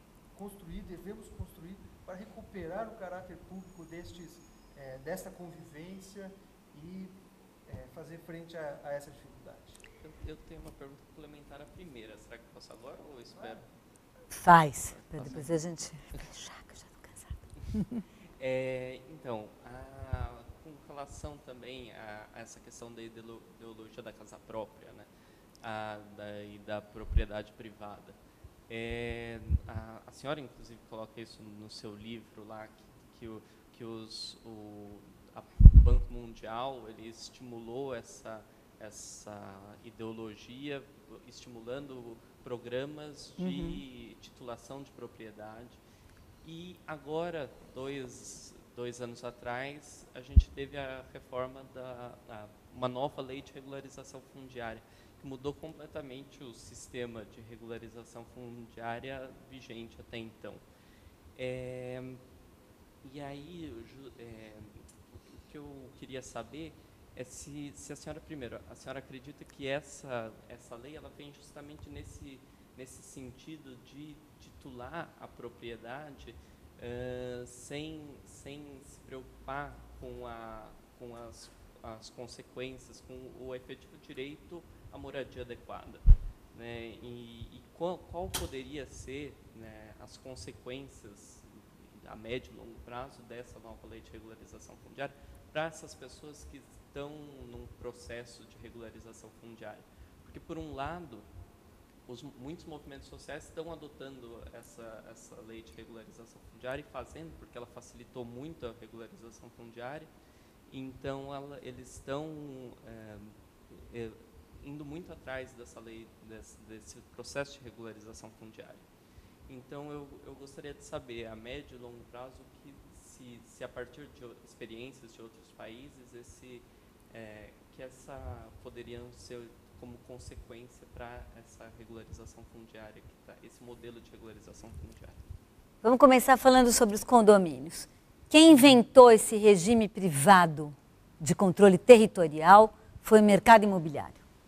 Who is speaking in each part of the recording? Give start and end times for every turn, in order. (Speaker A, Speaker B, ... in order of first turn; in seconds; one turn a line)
Speaker A: 0.3-7.1
Speaker A: 7.7-9.8
Speaker B: 10.0-13.6
Speaker A: 13.4-13.6
Speaker C: 14.3-18.0
Speaker B: 14.9-15.5
Speaker B: 18.4-25.1
Speaker B: 25.6-28.1
Speaker B: 28.7-45.8
Speaker C: 43.4-43.8
Speaker B: 46.4-60.6
Speaker B: 61.4-62.2
Speaker B: 63.0-86.0
Speaker B: 86.5-101.2
Speaker B: 102.1-110.1
Speaker B: 110.7-118.9
Speaker B: 119.5-135.2
Speaker C: 135.8-144.2